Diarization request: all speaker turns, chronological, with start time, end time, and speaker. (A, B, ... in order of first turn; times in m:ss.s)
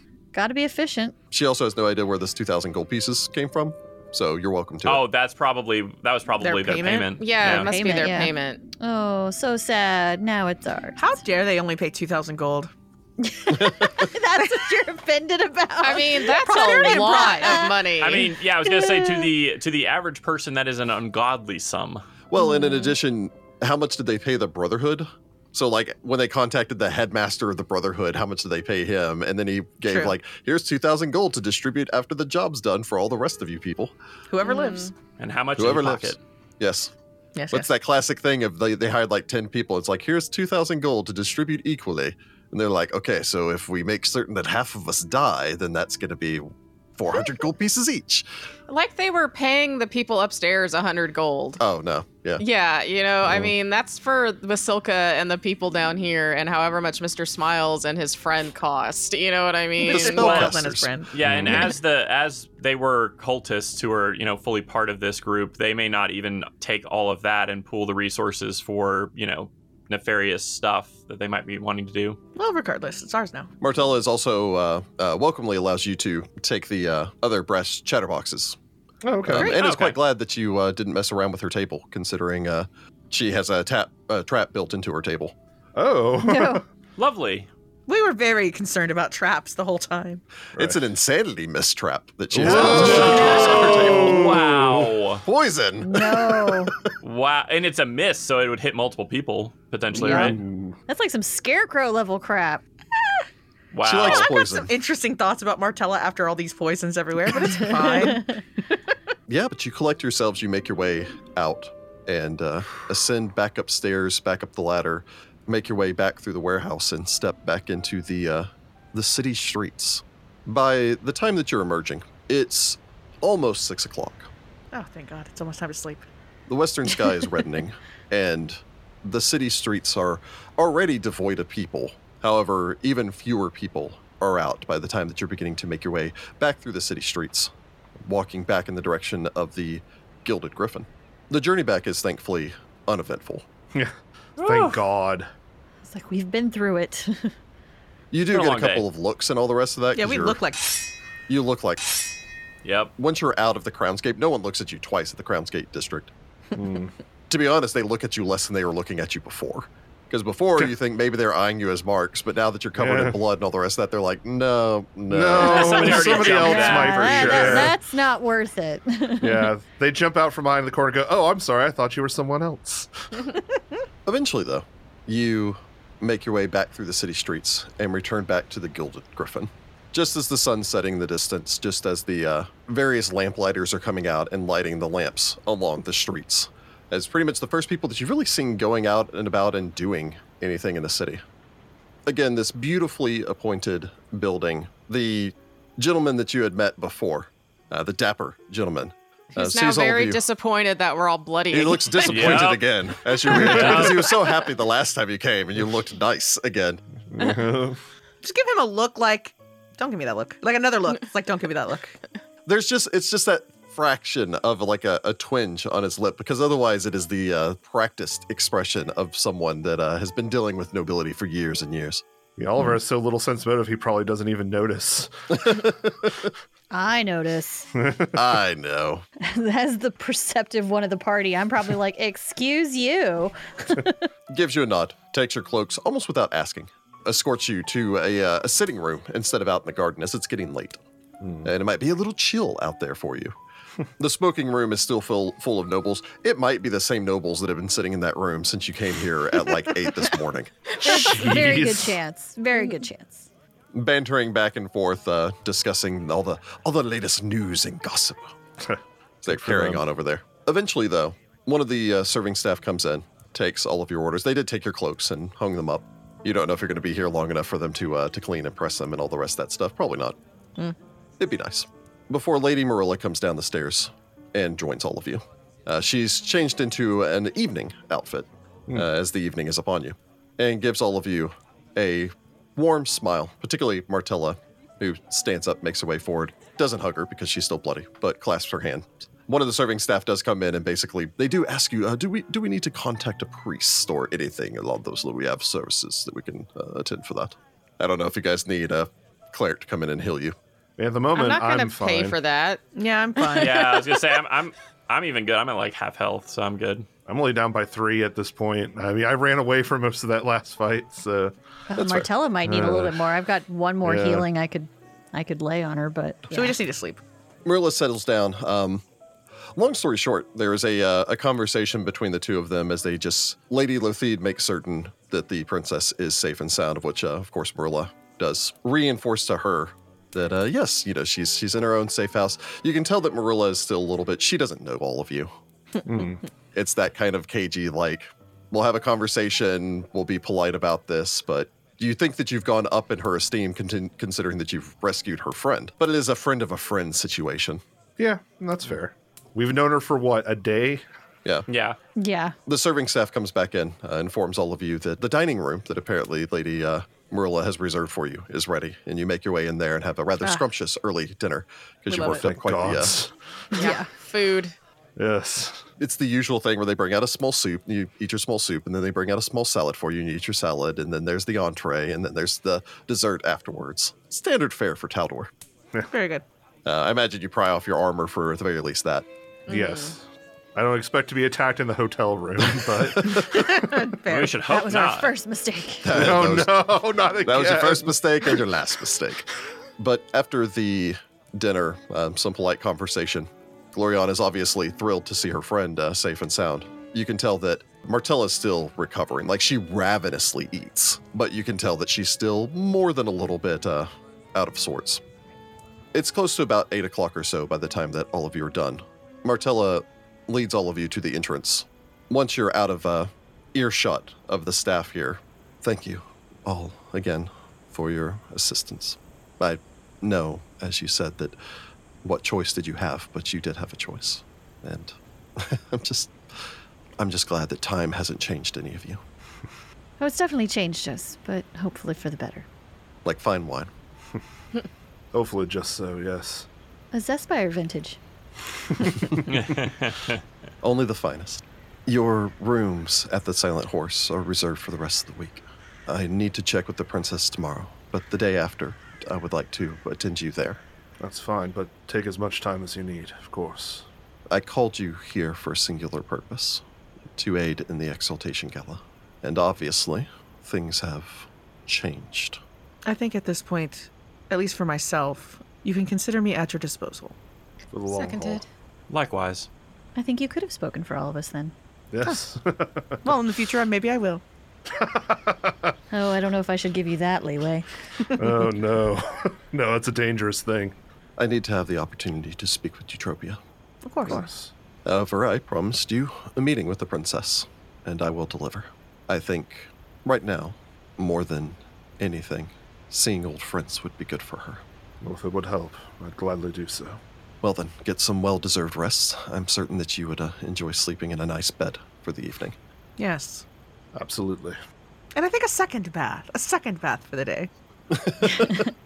0:00.3-0:01.2 A
0:01.3-0:05.0 B
0:04.8-0:07.8 C
0:06.4-0:07.1 D
0:07.2-0:08.6 E
0:07.6-0:11.0 A
0:11.0-0:12.7 D
0:13.2-0:17.8 A
0:13.5-0:14.1 B
0:15.8-0:18.3 E
0:16.2-0:17.7 D
0:18.0-0:22.0 C
0:18.6-0:19.3 A
0:22.3-0:33.9 B
0:22.4-0:22.9 A
0:29.8-0:30.1 D
0:34.3-0:34.9 D
0:34.4-0:34.9 E
0:35.2-0:36.2 C
0:35.6-0:36.9 B
0:37.4-0:37.7 D
0:37.5-0:48.2 B
0:48.7-0:51.6 E
0:51.6-0:52.4 B
0:52.4-1:00.4 E
0:59.8-1:01.1 D
0:59.8-1:00.9 B
1:00.1-1:00.6 C
1:01.1-1:12.2 C
1:01.2-1:01.7 F
1:12.4-1:13.5 D
1:13.6-1:18.6 B
1:19.0-1:19.5 F
1:19.2-1:25.3 B
1:19.3-1:19.6 D
1:19.4-1:20.0 C
1:25.7-1:26.6 F
1:26.1-1:26.6 A
1:27.0-1:27.5 C
1:27.9-1:30.2 D
1:30.6-1:34.3 B
1:32.3-1:34.9 F
1:32.4-1:35.2 C
1:32.7-1:33.8 A
1:35.2-1:36.7 B
1:35.8-1:36.7 A
1:37.0-1:40.4 C
1:39.9-1:42.6 A
1:40.0-1:40.8 F
1:43.7-1:44.3 C
1:43.8-1:44.7 B
1:44.0-1:48.4 D
1:47.3-1:48.4 A
1:49.3-2:04.3 B
2:04.7-2:06.0 D
2:06.5-2:23.4 B
2:23.7-2:25.3 F
2:24.4-2:24.8 C
2:25.8-2:27.3 A
2:28.1-2:30.4 B
2:28.3-2:28.8 C
2:29.9-2:30.6 D
2:31.3-2:31.8 B
2:32.6-2:32.9 C
2:33.0-2:36.1 B
2:36.5-2:36.9 F
2:37.3-2:46.5 B
2:42.8-2:43.2 F
2:45.1-2:47.8 F
2:45.4-2:47.7 C
2:46.2-2:49.5 A
2:49.2-2:53.4 F
2:54.0-3:11.2 B
3:12.0-3:20.2 B
3:19.3-3:22.4 E
3:21.5-3:26.8 B
3:22.1-3:22.7 C
3:23.2-3:24.1 C
3:27.1-3:27.8 F
3:28.2-3:32.0 D
3:32.4-3:42.0 B
3:42.4-3:45.7 F
3:45.3-3:46.2 B
3:46.7-3:47.7 A
3:47.8-3:48.1 F
3:48.1-3:49.0 B
3:49.2-3:54.1 A
3:54.3-4:00.8 B
4:01.2-4:01.5 F
4:01.4-4:03.4 B
4:04.0-4:10.7 B
4:10.8-4:13.3 A
4:10.8-4:12.0 F
4:13.7-4:18.3 B
4:18.6-4:19.8 F
4:19.2-4:30.2 B
4:31.2-5:00.3 B
5:00.8-5:02.2 F
5:01.1-5:02.6 E
5:02.7-5:03.8 D
5:03.3-5:06.9 C
5:07.1-5:11.3 F
5:11.7-5:16.6 A
5:11.7-5:12.1 B
5:12.4-5:13.0 F
5:13.8-5:14.3 F
5:16.3-5:17.0 D
5:17.4-5:18.8 B
5:19.5-5:35.3 B
5:35.8-5:36.2 F
5:36.5-5:47.6 B
5:48.0-5:50.8 F
5:51.5-5:51.8 C
5:52.0-5:52.4 A
5:52.4-6:03.0 B
6:01.9-6:02.2 D
6:02.1-6:03.1 F
6:03.5-6:04.5 E
6:03.6-6:03.8 A
6:05.0-6:05.6 F
6:05.8-6:15.3 B
6:15.9-6:16.2 D
6:16.6-6:19.1 B
6:19.5-6:24.0 F
6:19.5-6:19.9 E
6:22.5-6:23.3 B
6:23.2-6:24.4 D
6:24.0-6:25.1 C
6:24.4-6:26.0 A
6:25.8-6:29.2 B
6:25.9-6:28.4 F
6:29.8-6:45.0 B
6:45.9-7:01.4 B
7:02.0-7:06.4 B
7:07.0-7:09.0 B
7:10.0-7:12.4 A
7:13.0-7:13.7 B
7:15.1-7:16.5 F
7:16.9-7:18.0 A
7:18.8-7:19.2 F
7:19.1-7:20.2 C
7:20.6-7:30.6 B
7:31.0-7:33.8 F
7:34.3-7:36.6 B
7:37.1-7:42.4 B
7:42.8-7:47.2 D
7:47.7-7:48.4 F
7:47.9-7:48.5 E
7:48.9-7:49.5 C
7:49.9-7:51.5 A
7:51.9-7:53.1 F
7:53.0-7:54.2 D
7:54.7-7:55.7 F
7:55.9-7:57.7 A
7:58.2-8:00.8 F
8:01.2-8:03.4 B
8:03.8-8:04.2 D
8:04.0-8:04.5 F
8:04.8-8:14.6 B
8:15.0-8:17.0 F
8:17.4-8:22.6 B
8:23.0-8:23.4 D
8:23.9-8:24.6 F
8:25.1-8:27.5 D
8:27.9-8:28.7 B